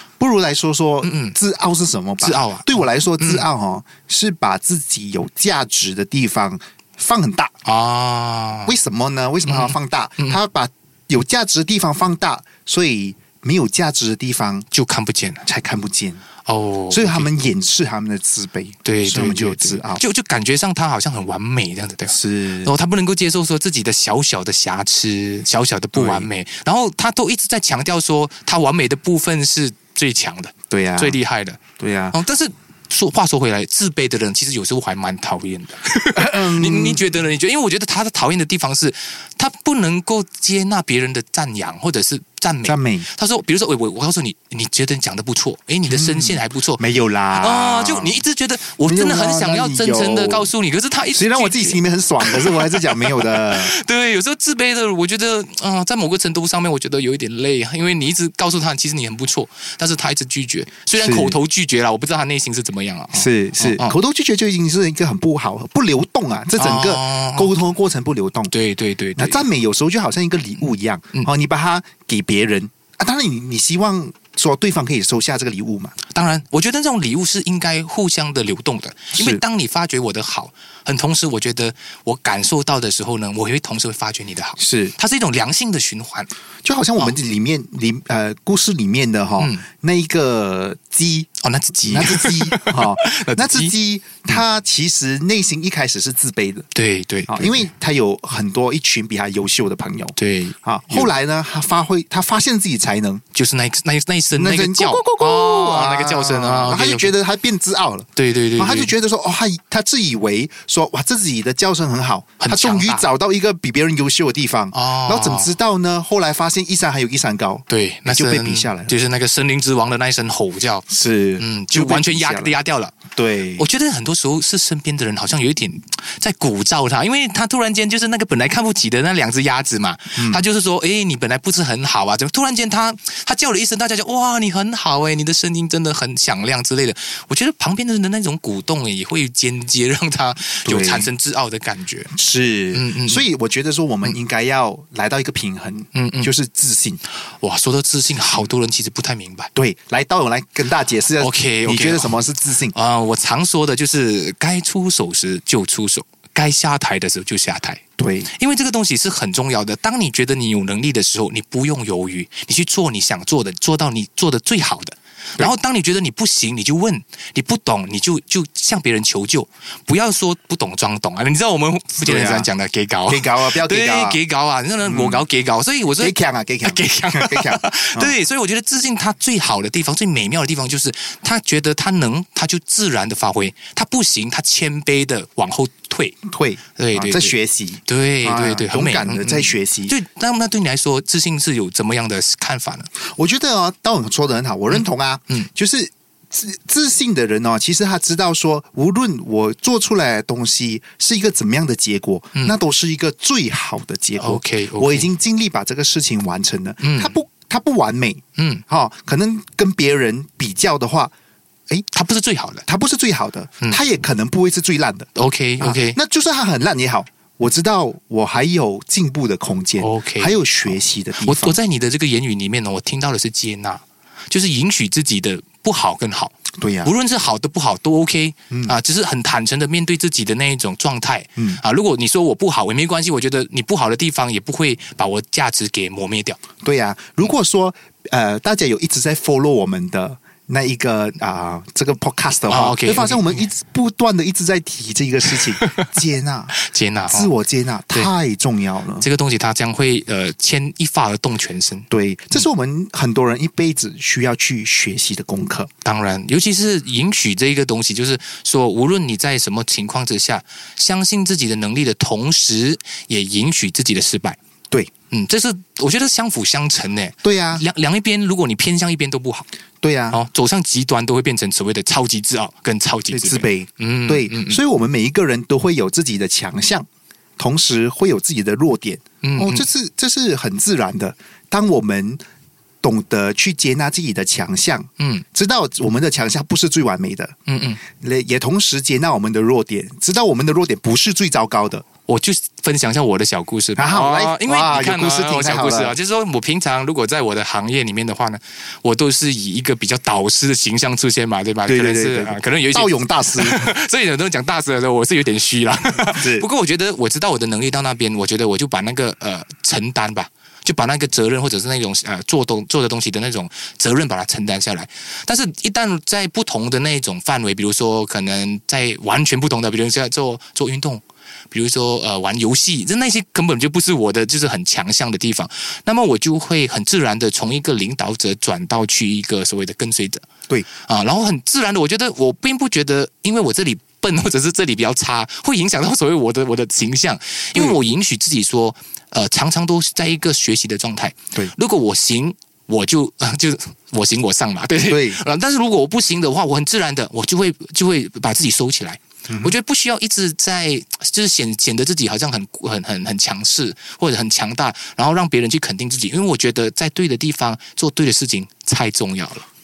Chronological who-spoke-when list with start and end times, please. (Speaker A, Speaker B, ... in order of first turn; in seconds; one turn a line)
Speaker A: 0.2-7.5
Speaker B: 1.0-1.4
Speaker B: 2.2-3.5
Speaker B: 7.7-8.8
Speaker A: 8.7-14.7
Speaker B: 9.4-10.4
Speaker B: 14.7-15.4
Speaker A: 15.4-16.2
Speaker B: 16.5-17.3
Speaker A: 16.9-20.0
Speaker B: 18.9-31.6
Speaker A: 22.1-22.7
Speaker A: 25.9-26.3
Speaker A: 30.7-31.2
Speaker A: 31.8-32.2
Speaker B: 32.1-46.8
Speaker A: 36.2-37.0
Speaker A: 42.6-43.1
Speaker A: 45.9-48.2
Speaker B: 47.4-64.0
Speaker A: 48.8-50.5
Speaker A: 51.1-53.7
Speaker A: 60.9-61.4
Speaker A: 63.1-68.5
Speaker B: 66.6-67.5
Speaker B: 68.5-69.4
Speaker A: 69.2-76.0
Speaker B: 76.1-86.3
Speaker A: 79.2-79.4
Speaker A: 84.6-84.9
Speaker A: 86.7-91.3
Speaker B: 91.4-93.7
Speaker A: 91.9-96.7
Speaker B: 96.7-97.7
Speaker A: 97.3-103.2
Speaker B: 100.2-101.1
Speaker B: 103.3-107.1
Speaker A: 104.3-118.9
Speaker B: 108.2-108.9
Speaker B: 112.4-113.1
Speaker B: 114.7-115.5
Speaker B: 117.7-120.9
Speaker A: 120.9-122.5
Speaker B: 121.4-123.0
Speaker A: 123.2-123.7
Speaker B: 123.6-142.1
Speaker A: 130.2-130.4
Speaker A: 140.7-141.1
Speaker A: 142.1-147.0
Speaker B: 142.7-143.3
Speaker B: 145.9-146.3
Speaker B: 147.4-149.5
Speaker A: 149.6-152.8
Speaker B: 151.2-152.2
Speaker B: 152.7-157.8
Speaker A: 158.0-158.3
Speaker B: 158.3-186.2
Speaker A: 172.0-172.5
Speaker A: 173.1-174.2
Speaker A: 174.8-175.3
Speaker A: 176.0-178.1
Speaker A: 186.3-189.9
Speaker B: 186.8-187.3
Speaker B: 187.9-192.9
Speaker A: 193.1-211.1
Speaker B: 194.7-195.5
Speaker B: 204.2-205.1
Speaker B: 206.8-207.2
Speaker B: 208.4-208.6
Speaker B: 211.9-212.6
Speaker A: 212.7-215.1
Speaker B: 215.2-216.0
Speaker A: 215.6-221.6
Speaker B: 219.8-236.4
Speaker A: 226.6-226.9
Speaker A: 236.6-249.1
Speaker B: 242.5-243.5
Speaker B: 246.7-247.3
Speaker B: 249.0-252.4
Speaker A: 251.9-255.7
Speaker B: 255.8-264.4
Speaker B: 265.1-269.5
Speaker A: 267.2-267.6
Speaker A: 269.8-270.2
Speaker B: 270.1-274.6
Speaker A: 273.1-276.9
Speaker A: 277.4-282.2
Speaker B: 279.2-279.6
Speaker A: 282.8-287.3
Speaker B: 287.5-287.8
Speaker A: 288.0-291.9
Speaker B: 292.1-330.2
Speaker A: 293.8-295.9
Speaker A: 301.7-303.6
Speaker A: 306.1-306.5
Speaker B: 330.8-359.4
Speaker A: 344.9-345.2
Speaker A: 349.3-349.6